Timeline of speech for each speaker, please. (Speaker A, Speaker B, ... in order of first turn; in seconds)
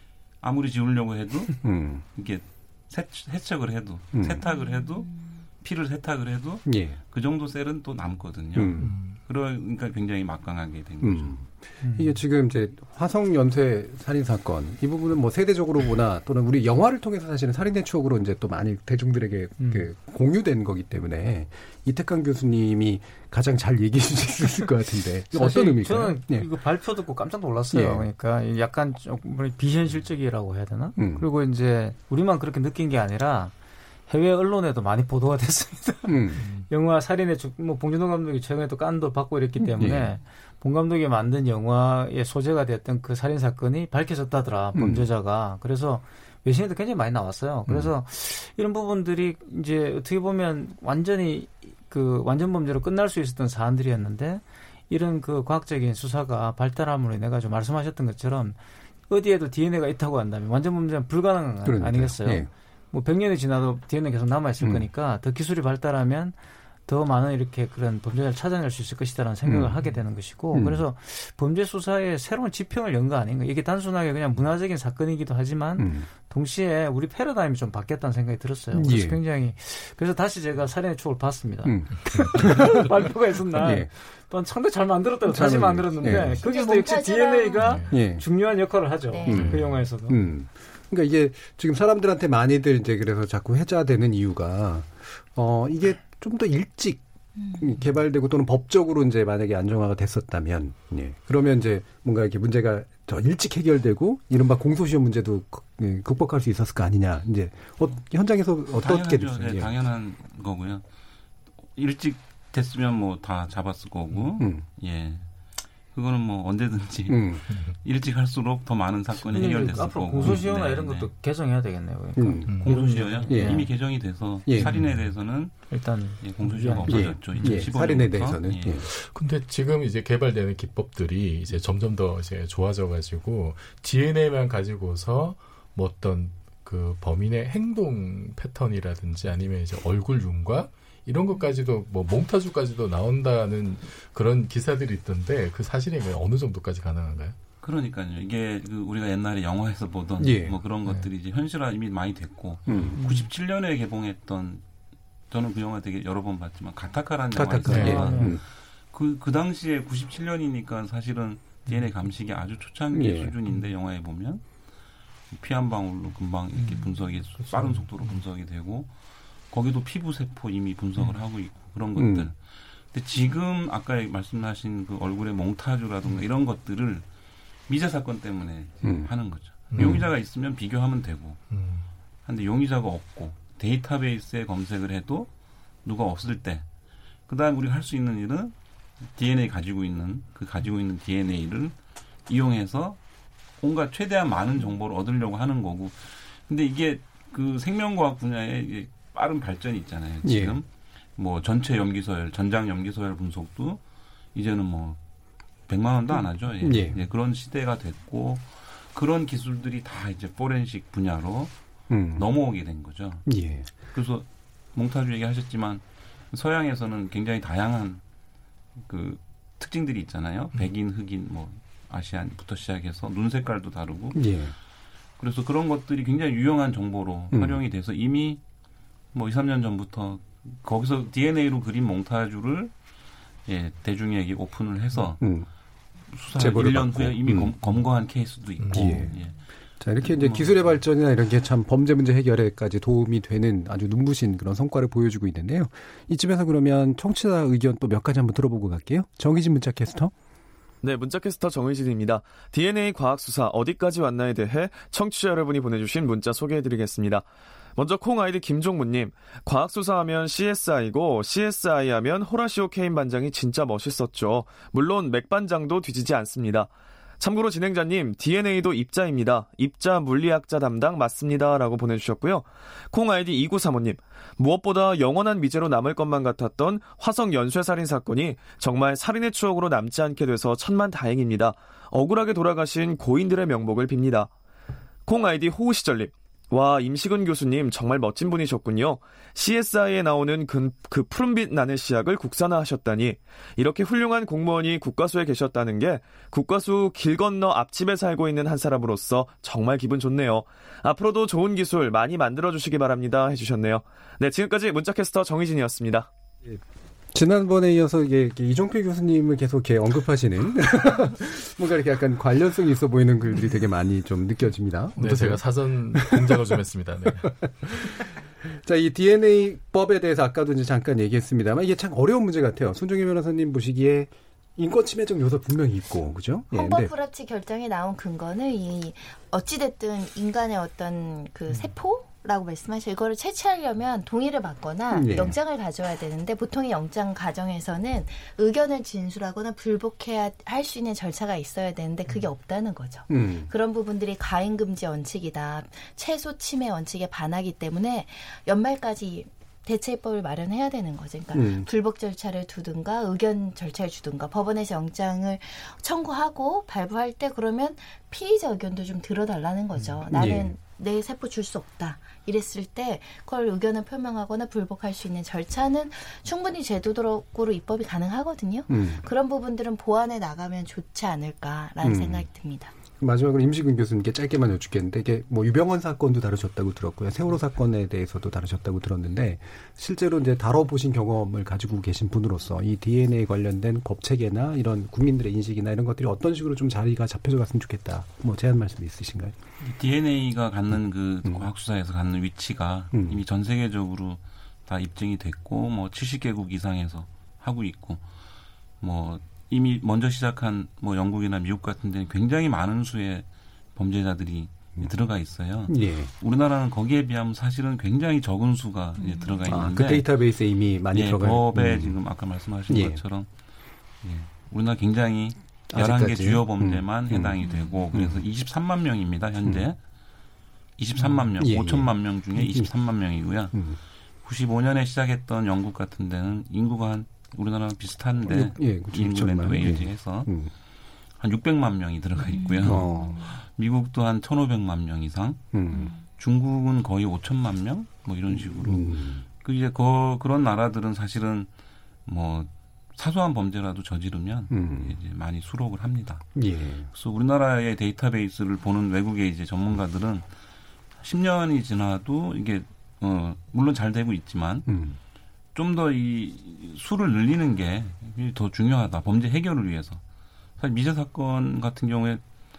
Speaker A: 0.4-11.4, 108.8-110.8, 111.7-115.3, 115.9-121.1, 122.5-128.8, 147.6-154.6, 155.3-164.4, 165.3-168.9, 169.5-177.1, 177.7-181.4, 182.2-185.3, 185.8-186.7, 187.3-188.5, 189.1-193.0, 193.6-203.8, 204.3-205.0, 205.7-211.5, 212.1-218.0, 218.8-224.2, 225.2-228.4, 229.1-232.7, 233.4-235.2, 236.1-239.4, 240.0-240.7, 389.6-398.1, 398.8-410.1, 410.9-413.3, 414.0-419.8, 420.8-423.6, 424.2-430.3, 431.2-435.4, 436.0-441.5, 442.1-446.2, 446.9-450.3, 451.0-454.7, 455.5-460.0, 460.6-462.2
Speaker B: 1.6-2.0, 4.1-4.4, 6.6-7.0, 8.5-8.9, 11.0-26.5, 27.7-28.1, 30.9-31.2, 36.1-36.4, 39.8-40.1, 44.7-45.0, 61.6-62.5, 64.6-64.9, 69.4-69.8, 70.5-70.8, 75.8-76.1, 78.7-79.2, 81.6-82.8, 83.5-83.9, 85.3-86.5, 87.9-88.2, 89.2-97.0, 97.5-109.7, 114.4-114.6, 117.1-117.4, 122.2-122.5, 123.3-123.7, 124.4-124.8, 126.9-128.8, 150.2-150.6, 152.7-153.0, 157.3-158.4, 162.9-163.3, 171.9-172.3, 178.8-179.1, 179.8-180.0, 200.2-200.6, 206.3-207.0, 211.9-212.3, 213.2-213.7, 224.1-224.5, 227.3-227.6, 235.2-235.5, 236.3-237.5, 238.7-239.2, 239.8-250.1, 307.1-315.4, 315.9-316.4, 318.4-326.9, 334.9-335.4, 343.1-343.5, 351.3-351.7, 360.1-360.6, 368.7-369.0, 371.8-372.2, 373.0-389.4, 392.9-393.2, 405.7-406.1, 409.4-412.0, 412.7-413.0, 415.7-417.3, 417.9-418.2, 421.4-422.7, 423.5-423.8, 428.2-430.5, 432.6-433.2, 435.5-435.9, 438.3-439.2, 444.5-445.0, 446.3-446.9, 454.7-455.0
Speaker C: 8.8-9.2, 36.4-36.7, 87.6-87.9, 89.3-89.8, 117.5-117.8, 119.3-119.8, 122.5-123.4, 124.5-125.2, 126.4-127.7, 128.6-147.3, 150.8-151.1, 157.7-158.1, 167.4-167.8, 179.7-180.1, 181.5-181.8, 238.6-239.1, 315.0-317.5
Speaker D: 11.8-12.2, 19.6-19.9, 25.3-33.5, 34.1-58.6, 59.1-90.2, 119.3-123.7, 125.7-127.1, 153.0-153.3, 157.6-158.4, 166.5-168.2
Speaker E: 86.3-87.8, 89.1-89.5, 97.4-97.8, 326.5-372.7, 409.0-409.5, 432.4-432.8
Speaker F: 250.8-257.2, 257.8-284.3, 285.1-306.1